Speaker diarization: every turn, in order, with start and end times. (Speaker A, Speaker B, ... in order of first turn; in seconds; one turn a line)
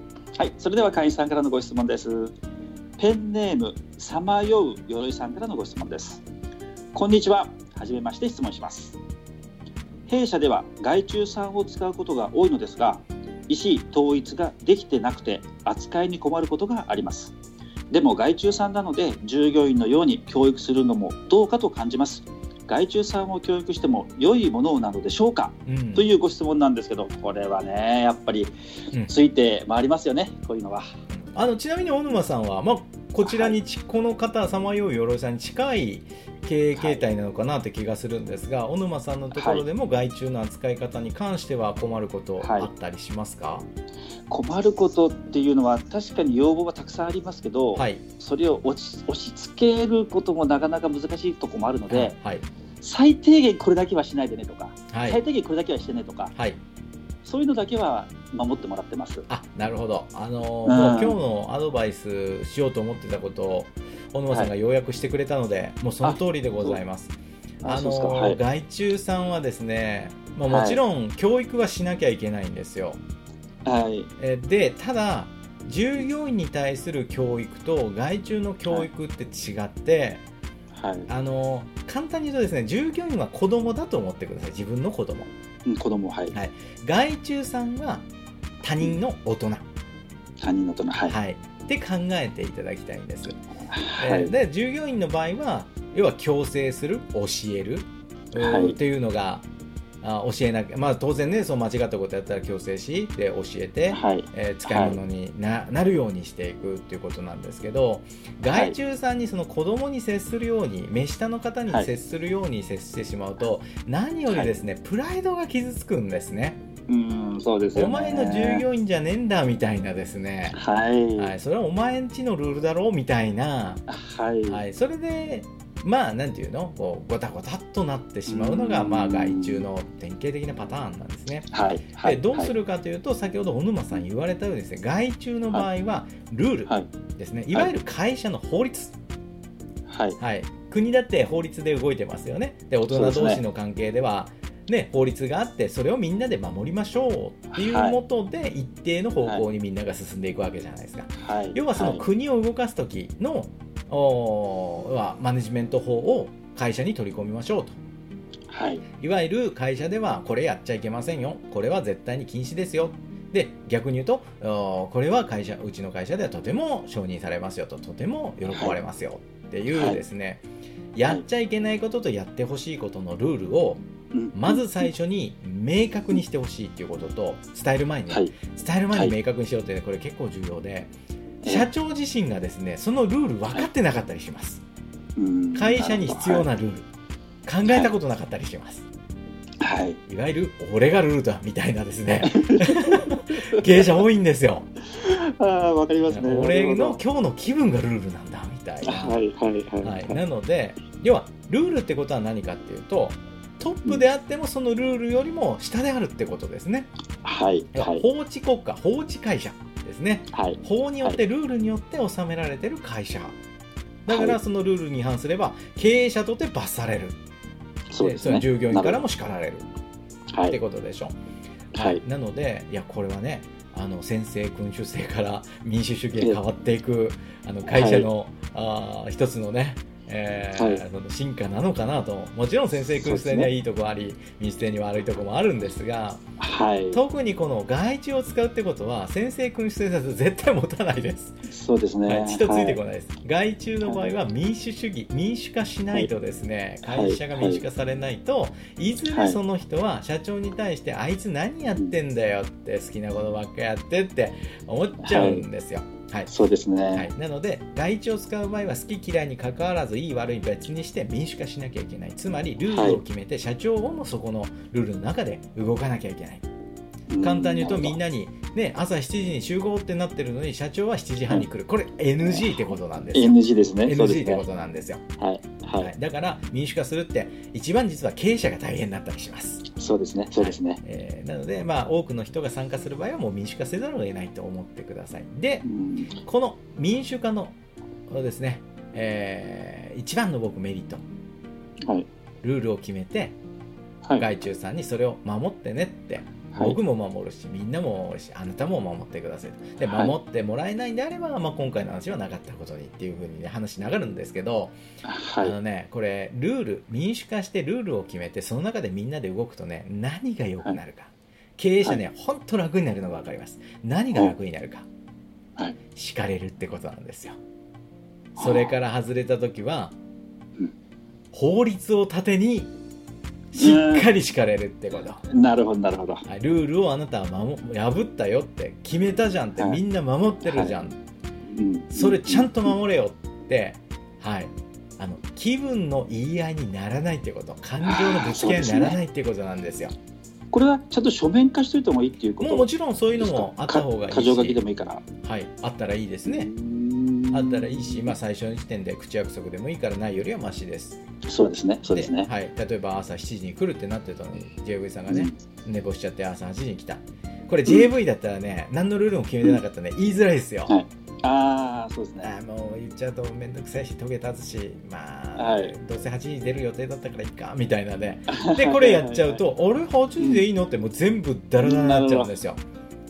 Speaker A: 0.4-2.3
Speaker A: 3.0-6.2
Speaker A: 6.9-9.0
Speaker A: 10.1-17.3
Speaker A: 17.9-28.5
Speaker B: 25.7-26.1
Speaker A: 29.1-30.9
Speaker B: 31.2-43.7
Speaker A: 33.2-33.5
Speaker A: 36.7-37.1
Speaker A: 39.3-39.6
Speaker A: 42.4-42.7
Speaker A: 44.3-52.1
Speaker B: 47.8-48.0
Speaker B: 51.9-52.4
Speaker A: 52.8-56.3
Speaker B: 54.9-55.2
Speaker A: 57.2-59.2
Speaker B: 59.3-73.0
Speaker A: 60.6-61.2
Speaker A: 66.0-66.7
Speaker A: 67.6-68.4
Speaker A: 70.5-70.8
Speaker A: 73.6-74.1
Speaker B: 74.2-80.2
Speaker A: 80.7-81.1
Speaker B: 81.1-85.3
Speaker A: 85.7-86.3
Speaker B: 86.3-88.0
Speaker B: 88.6-89.7
Speaker A: 90.4-91.2
Speaker B: 91.1-93.4
Speaker A: 93.7-94.3
Speaker B: 94.0-99.5
Speaker A: 98.4-98.8
Speaker B: 100.0-116.6
Speaker A: 103.9-105.0
Speaker A: 108.5-108.8
Speaker A: 116.9-118.6
Speaker B: 117.7-120.6
Speaker A: 120.5-121.3
Speaker B: 121.2-123.8
Speaker A: 123.9-124.6
Speaker B: 124.5-131.5
Speaker A: 128.3-129.7
Speaker A: 131.5-132.5
Speaker B: 132.0-139.0
Speaker A: 139.9-140.2
Speaker B: 140.2-157.8
Speaker A: 142.9-143.4
Speaker A: 147.5-148.0
Speaker A: 151.2-152.0
Speaker A: 158.5-158.8
Speaker B: 159.0-173.8
Speaker A: 168.5-168.8
Speaker A: 169.7-170.0
Speaker A: 174.1-174.9
Speaker B: 174.3-180.9
Speaker A: 178.1-178.3
Speaker A: 181.4-181.7
Speaker B: 181.4-184.6
Speaker A: 185.2-186.5
Speaker B: 185.5-186.9
Speaker B: 187.4-188.9
Speaker A: 189.6-190.0
Speaker B: 190.1-194.7
Speaker A: 192.2-193.9
Speaker A: 194.8-197.0
Speaker B: 196.1-199.2
Speaker A: 198.8-200.2
Speaker B: 199.8-206.9
Speaker A: 207.2-208.0
Speaker B: 207.7-213.4
Speaker A: 210.3-211.2
Speaker B: 214.1-217.2
Speaker A: 214.1-214.4
Speaker A: 217.9-219.0
Speaker B: 218.0-219.7
Speaker B: 220.5-221.1
Speaker A: 221.7-222.0
Speaker B: 221.7-236.2
Speaker A: 227.7-228.1
Speaker A: 230.6-230.8
Speaker A: 232.8-233.5
Speaker A: 236.4-237.0
Speaker B: 236.9-241.4
Speaker A: 241.4-242.8
Speaker B: 242.1-256.3
Speaker A: 246.8-247.6
Speaker A: 249.1-249.4
Speaker A: 255.0-255.4
Speaker A: 256.3-257.1
Speaker B: 256.9-266.4
Speaker A: 262.6-263.0
Speaker A: 267.1-268.0
Speaker B: 267.2-275.0
Speaker A: 272.2-274.4
Speaker A: 275.2-275.9
Speaker B: 275.8-279.7
Speaker A: 279.7-280.8
Speaker B: 280.4-285.7
Speaker A: 285.6-286.2
Speaker B: 286.2-287.6
Speaker B: 288.1-291.0
Speaker B: 292.4-293.4
Speaker B: 294.2-304.8
Speaker A: 299.8-300.1
Speaker A: 305.0-305.6
Speaker B: 305.4-314.9
Speaker B: 315.9-317.4
Speaker A: 318.4-318.7
Speaker B: 318.4-319.9
Speaker B: 321.3-322.7
Speaker B: 323.5-325.2
Speaker A: 323.6-324.1
Speaker A: 325.2-326.2
Speaker B: 326.2-331.0
Speaker A: 330.4-330.7
Speaker A: 331.5-332.7
Speaker B: 331.9-339.9
Speaker A: 337.8-339.0
Speaker A: 340.5-345.0
Speaker B: 342.4-344.6
Speaker B: 345.2-346.5
Speaker A: 346.2-348.1
Speaker B: 347.3-351.0
Speaker A: 351.2-352.3
Speaker B: 351.9-360.8
Speaker A: 355.1-355.3
Speaker A: 360.7-362.3
Speaker B: 362.2-372.6
Speaker A: 365.4-365.7
Speaker A: 368.3-369.4
Speaker A: 370.2-370.4
Speaker A: 371.6-372.4